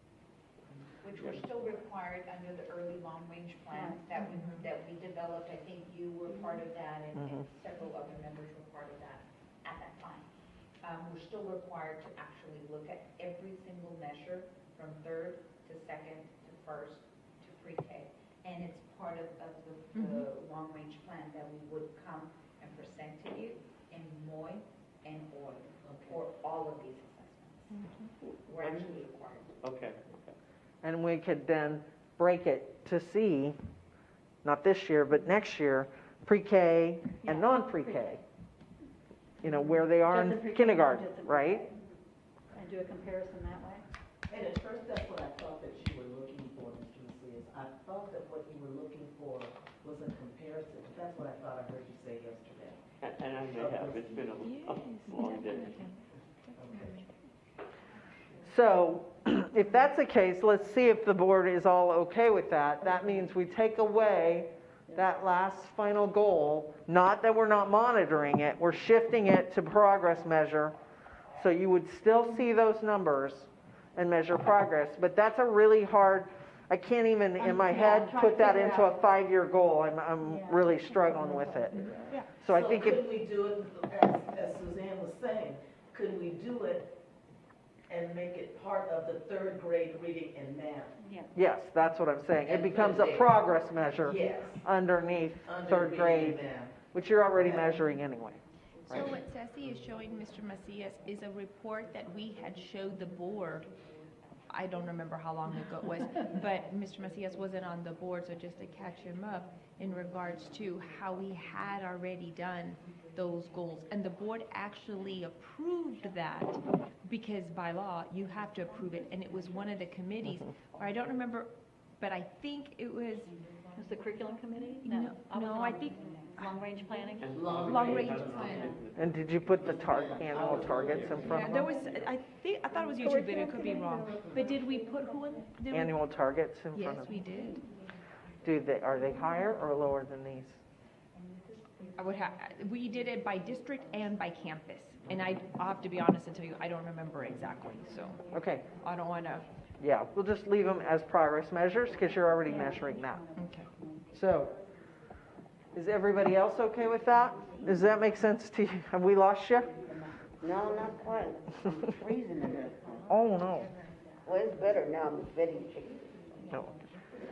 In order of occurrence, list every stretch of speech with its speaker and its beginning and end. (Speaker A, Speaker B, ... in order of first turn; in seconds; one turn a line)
Speaker A: 1.0-10.3
Speaker B: 1.2-1.5
Speaker C: 3.7-4.0
Speaker D: 4.2-4.7
Speaker E: 7.2-7.5
Speaker A: 10.8-27.8
Speaker D: 19.9-20.3
Speaker F: 25.9-26.2
Speaker D: 27.7-28.1
Speaker A: 28.4-29.6
Speaker B: 29.6-30.4
Speaker E: 30.8-33.6
Speaker E: 34.4-38.2
Speaker C: 37.2-38.2
Speaker E: 39.4-41.6
Speaker C: 40.0-41.8
Speaker C: 42.5-43.9
Speaker F: 44.3-52.8
Speaker B: 53.0-55.9
Speaker F: 53.5-54.5
Speaker D: 54.4-57.1
Speaker F: 56.6-57.0
Speaker E: 58.4-70.8
Speaker E: 71.4-83.0
Speaker C: 77.4-79.0
Speaker C: 80.3-81.8
Speaker D: 81.8-82.3
Speaker F: 82.4-86.9
Speaker F: 87.9-90.9
Speaker C: 91.0-91.3
Speaker E: 91.3-99.2
Speaker F: 92.4-93.3
Speaker F: 94.0-94.6
Speaker F: 95.5-96.8
Speaker F: 97.3-97.8
Speaker D: 98.9-103.7
Speaker D: 104.5-123.3
Speaker C: 123.8-127.4
Speaker D: 124.8-126.5
Speaker B: 127.2-131.4
Speaker F: 127.3-128.6
Speaker D: 127.6-128.8
Speaker E: 129.0-131.8
Speaker F: 130.3-130.8
Speaker D: 131.2-136.0
Speaker E: 135.7-137.2
Speaker D: 136.7-137.7
Speaker E: 138.4-140.6
Speaker D: 142.0-148.2
Speaker E: 148.3-148.7
Speaker D: 148.8-149.5
Speaker E: 149.8-153.2
Speaker D: 153.3-153.7
Speaker E: 154.1-154.6
Speaker E: 155.7-159.7
Speaker G: 160.4-163.1
Speaker E: 163.1-163.7
Speaker G: 164.3-166.2